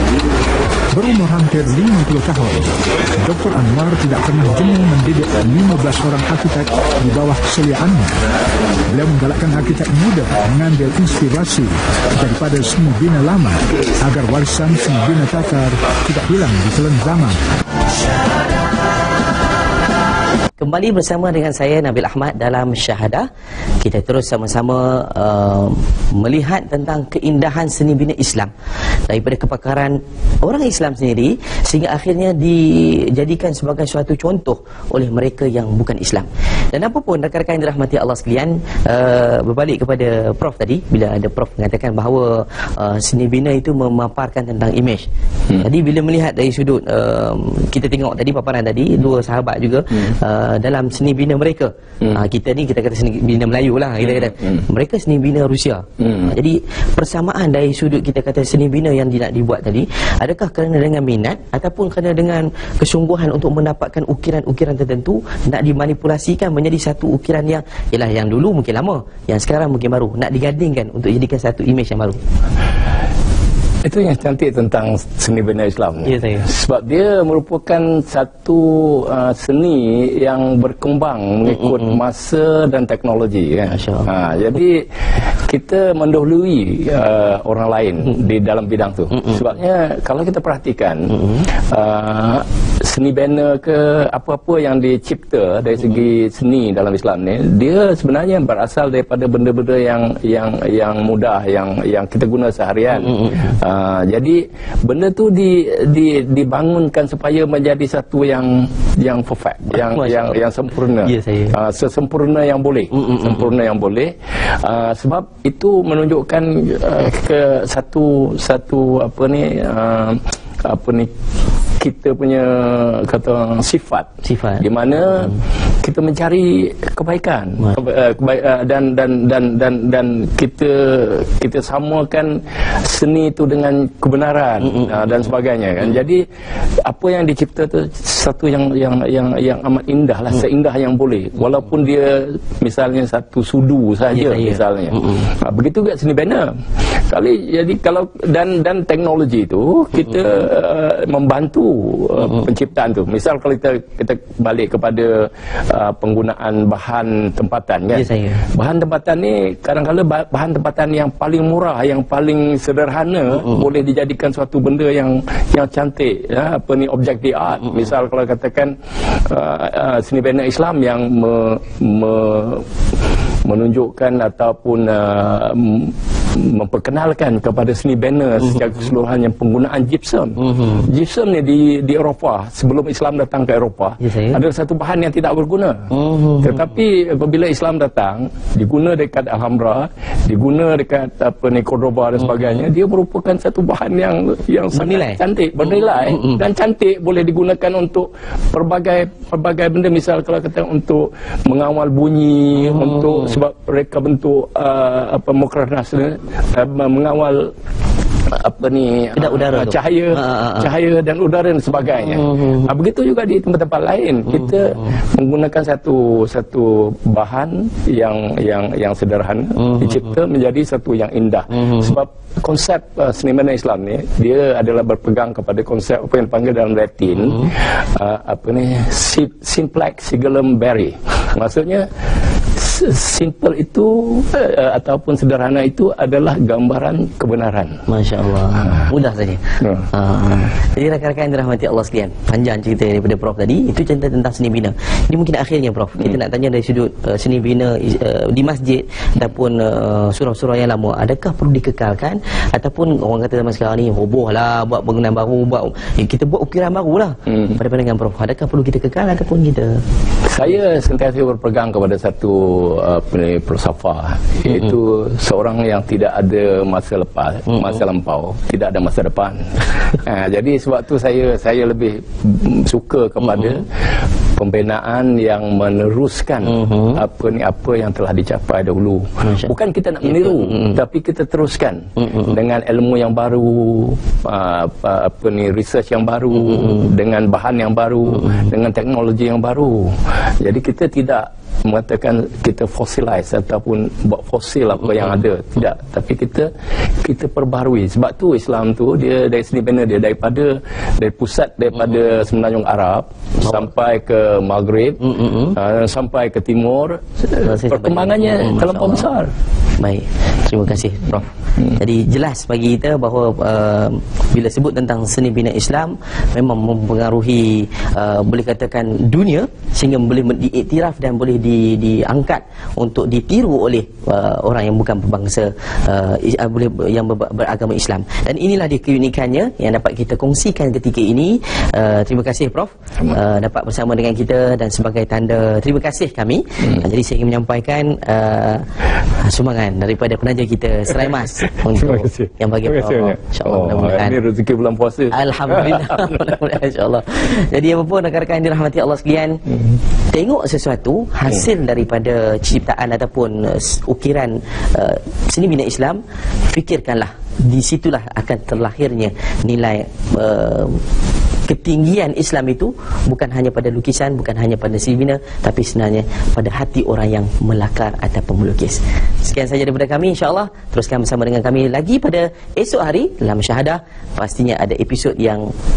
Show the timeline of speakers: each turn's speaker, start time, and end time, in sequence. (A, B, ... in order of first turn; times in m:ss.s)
0:00.9-0:08.2 A
0:08.9-0:17.4 A
0:20.6-0:23.3 B
0:23.8-0:28.5 B
0:29.1-0:45.1 B
0:45.6-1:12.2 B
1:13.8-1:24.8 C
1:16.1-1:16.4 B
1:21.7-1:21.9 B
1:23.7-1:24.1 B
1:25.5-1:31.1 C
1:31.7-2:01.1 C
1:43.0-1:43.6 B
1:49.7-1:50.4 B
1:51.0-1:51.5 B
1:52.9-1:53.4 B
2:01.8-2:16.2 C
2:04.2-2:04.6 B
2:16.8-2:26.5 C
2:24.1-2:25.3 B
2:27.1-2:52.6 C
2:37.9-2:38.4 B
2:53.4-3:27.5 C
3:00.4-3:00.8 B
3:04.0-3:04.4 B
3:05.9-3:06.5 B
3:14.7-3:15.2 B
3:22.8-3:23.2 B
3:28.3-3:51.9 C
3:29.2-3:30.7 B
3:52.6-3:57.8 C
3:57.9-4:19.8 B
3:59.6-3:59.9 C
4:20.3-4:33.6 C
4:34.4-4:56.5 C
4:36.7-4:36.9 B
4:39.2-4:39.5 B
4:40.2-4:40.7 B
4:57.0-5:09.3 C
5:05.2-5:05.5 B
5:07.4-5:09.1 B
5:09.8-5:38.7 B
5:39.2-5:44.2 B
5:41.8-5:46.2 C
5:45.1-5:49.4 B
5:50.1-6:00.8 B
6:01.5-6:15.5 B